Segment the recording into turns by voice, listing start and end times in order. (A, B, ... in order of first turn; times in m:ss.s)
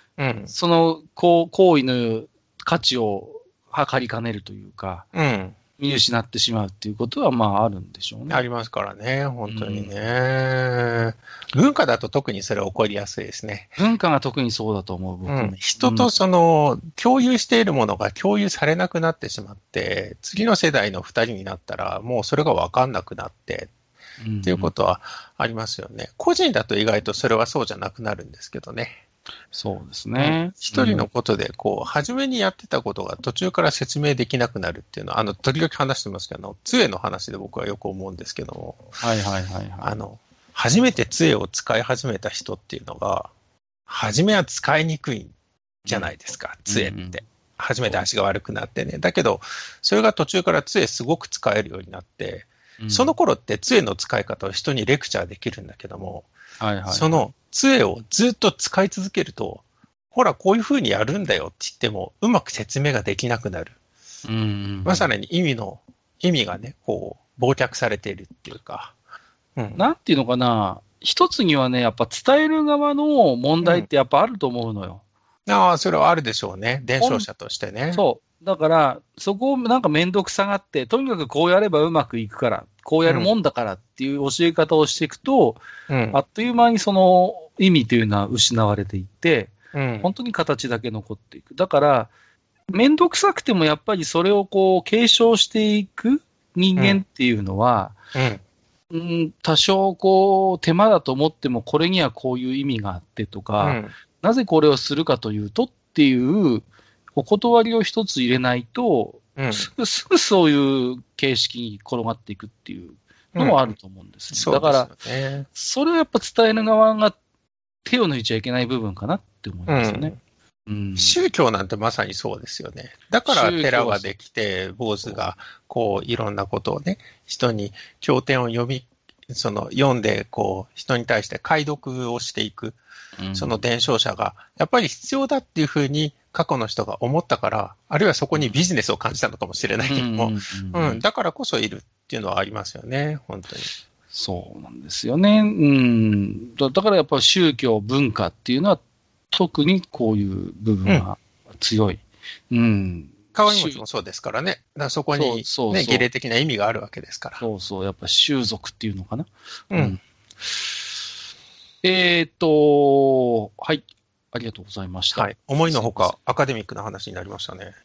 0:00.2-0:00.5 A
0:00.5-0:05.1 B
0:05.1-0:05.6 A
0:05.8-0:08.4 B
0:08.3-0:13.8 A
0:09.5-0:09.9 B
0:13.8-0:16.1 B
0:15.3-0:23.7 A
0:24.2-0:24.7 B
0:24.4-0:29.0 A
0:29.5-0:31.1 B
0:30.2-0:39.0 A
0:39.0-0:40.0 B
0:39.8-0:43.3 A
0:43.9-0:45.3 A
0:45.8-0:56.3 A
0:46.7-0:47.2 B
0:52.8-0:53.2 B
0:56.6-0:57.3 B
0:56.9-1:03.8 A
1:04.3-1:05.1 B
1:04.8-1:08.9 A
1:09.6-1:09.8 A
1:09.8-1:15.0 B
1:13.6-1:13.9 A
1:15.5-1:18.0 A
1:17.0-1:17.3 B
1:17.9-1:32.1 B
1:23.1-1:23.3 A
1:25.9-1:26.2 A
1:29.7-1:30.1 A
1:32.7-1:38.0 B
1:38.1-1:38.4 A
1:38.9-1:54.9 B
1:43.6-1:43.9 A
1:49.4-1:49.7 A
1:53.4-1:53.7 A
1:54.3-1:55.5 A
1:55.5-1:57.2 B
1:57.8-2:00.2 B
1:59.7-2:00.2 A
2:00.7-2:01.2 B
2:01.0-2:12.8 A
2:03.3-2:04.1 B
2:13.2-2:13.6 B
2:13.3-2:23.7 A
2:19.8-2:21.0 B
2:24.1-2:33.8 B
2:33.4-2:37.4 A
2:35.1-2:36.1 B
2:37.4-2:40.0 B
2:39.7-2:40.0 A
2:41.8-2:46.2 B
2:45.2-2:47.8 A